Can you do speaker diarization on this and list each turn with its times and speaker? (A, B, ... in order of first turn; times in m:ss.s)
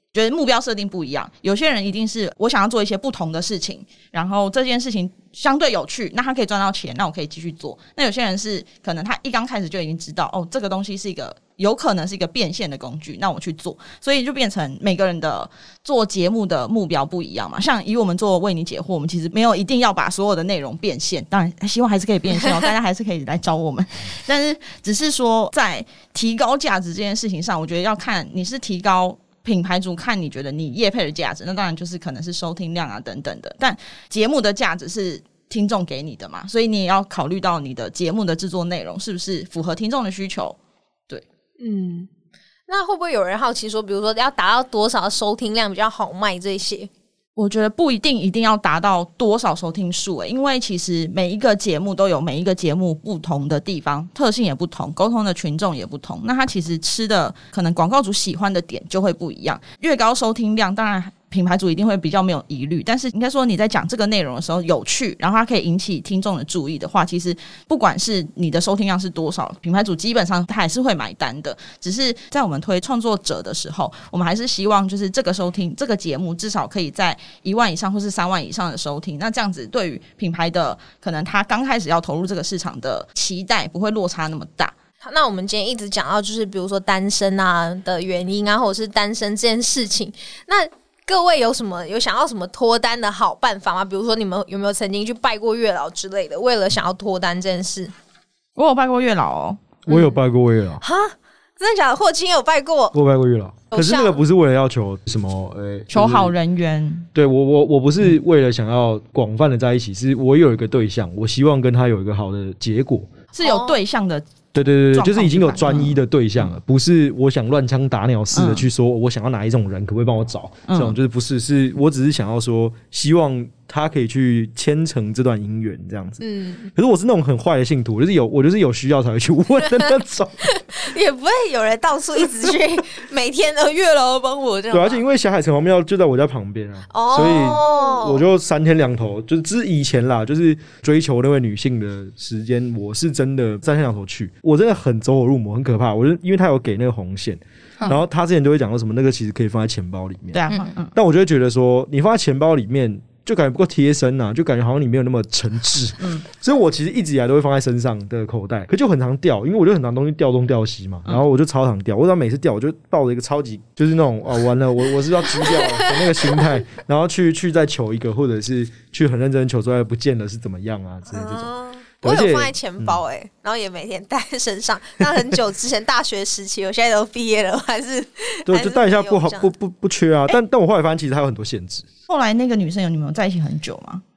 0:00.1-0:40.6 A
0:41.6-0:42.1 B
0:42.7-0:46.9 B
0:47.4-1:24.8 A
1:25.0-1:37.9 B
1:38.6-1:39.6 A
1:39.9-1:40.8 C
1:39.9-1:40.2 B
1:40.8-1:43.0 B
1:42.9-1:46.3 C
1:43.7-1:44.2 B
1:45.9-1:47.1 A
1:47.2-1:53.1 C
1:53.3-1:54.3 A
1:53.4-1:53.8 B
1:54.5-2:06.2 C
1:54.9-1:56.0 A
1:58.3-1:58.7 A
2:00.7-2:01.0 A
2:06.2-2:06.7 B
2:06.8-2:10.5 C
2:10.6-2:15.0 B
2:14.7-2:30.4 C
2:16.9-2:18.2 B
2:30.3-2:30.9 A
2:30.9-2:51.5 C
2:45.5-2:46.4 B
2:51.1-2:59.5 B
2:52.0-2:53.0 C
2:58.5-3:01.9 C
3:02.1-3:04.0 A